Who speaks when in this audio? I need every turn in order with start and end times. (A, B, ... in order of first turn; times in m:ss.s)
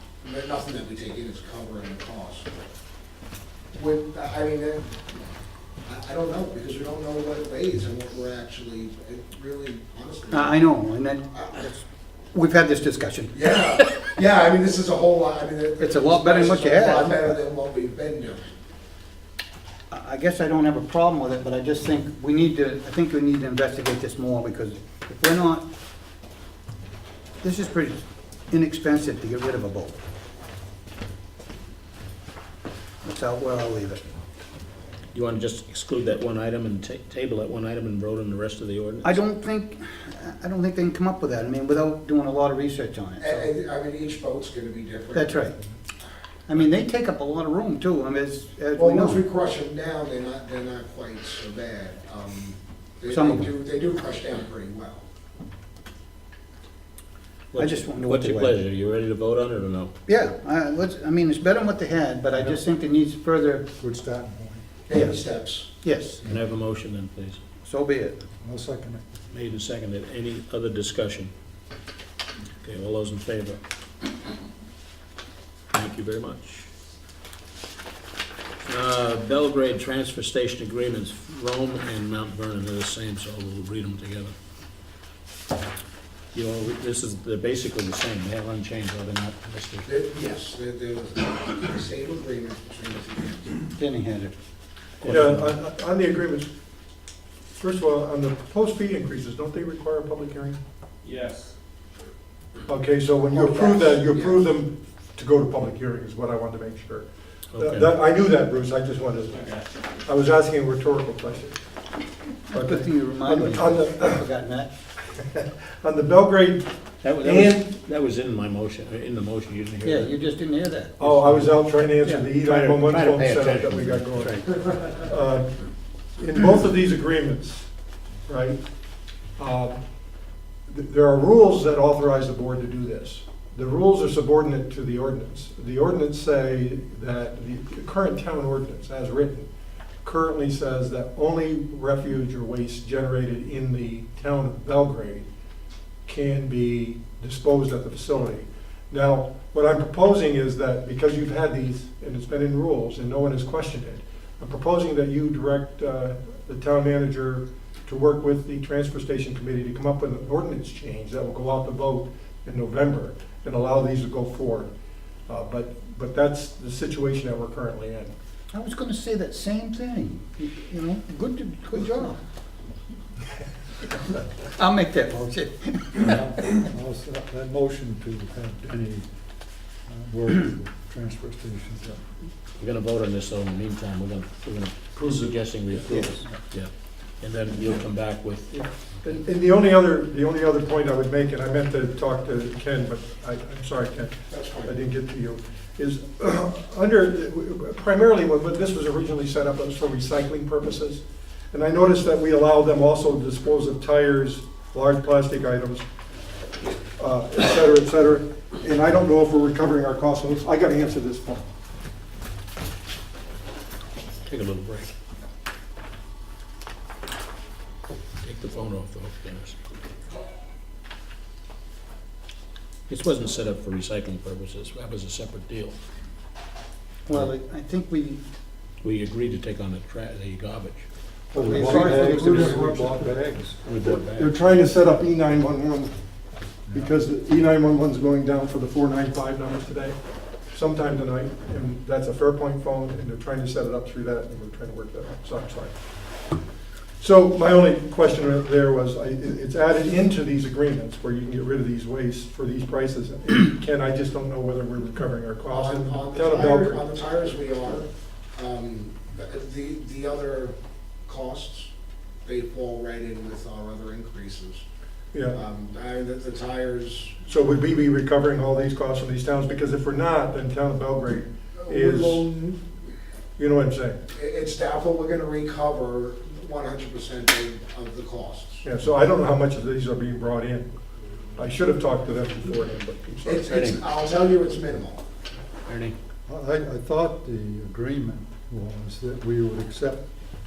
0:00.2-0:02.5 A
0:03.7-0:04.9 A
0:05.8-0:10.6 A
0:10.3-0:13.4 B
0:11.3-0:11.7 A
0:13.3-0:18.5 A
0:15.8-0:17.3 B
0:19.9-0:25.6 B
0:27.4-0:30.0 B
0:33.0-0:34.0 B
0:35.1-0:39.2 C
0:39.0-0:43.5 B
0:43.2-0:45.4 A
0:45.1-0:45.5 B
0:46.5-0:49.2 B
0:48.7-0:55.0 A
0:53.1-0:53.5 B
0:57.5-0:59.9 C
0:57.6-0:58.5 B
1:00.1-1:03.6 B
1:03.8-1:04.6 D
1:04.9-1:05.7 A
1:05.8-1:06.2 B
1:06.2-1:07.4 C
1:07.6-1:08.2 B
1:08.4-1:09.2 D
1:09.3-1:11.3 C
1:12.6-1:13.6 C
1:15.7-1:16.7 C
1:18.6-1:24.3 C
1:26.3-1:29.9 C
1:29.8-1:33.6 A
1:33.8-1:34.3 B
1:35.0-1:36.5 E
1:35.0-1:35.4 B
1:37.6-1:40.6 E
1:41.0-1:41.3 C
1:42.7-1:49.5 E
1:43.3-1:44.4 A
1:47.5-1:47.9 C
1:50.0-1:51.6 E
1:52.5-1:54.2 E
1:52.5-1:54.7 B
1:55.1-1:56.7 E
1:57.0-2:00.1 C
1:57.2-1:57.7 E
1:59.8-2:01.4 B
2:01.0-2:04.3 E
2:02.1-2:04.9 C
2:04.9-2:05.5 E
2:06.2-2:07.7 E
2:08.3-2:08.6 E
2:09.4-2:09.8 E
2:10.7-2:19.5 E
2:20.0-2:25.2 E
2:26.0-2:44.7 E
2:45.3-2:48.1 E
2:48.5-2:52.2 B
2:54.5-2:56.2 B
2:55.9-2:59.1 D
2:59.8-3:02.0 D
3:02.6-3:06.7 C
3:05.9-3:06.2 B
3:07.2-3:09.1 C
3:09.0-3:25.8 E
3:14.3-3:14.7 A
3:27.0-3:31.5 E
3:34.2-3:34.9 C
3:38.2-3:39.6 C
3:42.9-3:45.8 C
3:47.1-3:48.2 B
3:48.8-3:50.9 C
3:51.3-3:53.6 D
3:51.4-3:52.8 B
3:51.5-3:53.1 E
3:53.6-3:54.3 C
3:53.7-3:55.9 E
3:56.7-3:56.9 D
3:56.7-4:00.0 E
4:00.5-4:05.7 E
4:07.0-4:16.8 E
4:15.5-4:21.7 A
4:22.2-4:24.6 A
4:25.1-4:25.4 E
4:25.3-4:27.2 A
4:27.2-4:32.3 E
4:31.6-4:32.6 A
4:33.4-4:34.0 E
4:34.1-4:38.6 A
4:38.6-4:40.7 E
4:41.4-4:43.5 E
4:43.2-4:45.0 A
4:43.4-4:43.8 C
4:45.7-4:45.9 C
4:46.3-4:50.0 D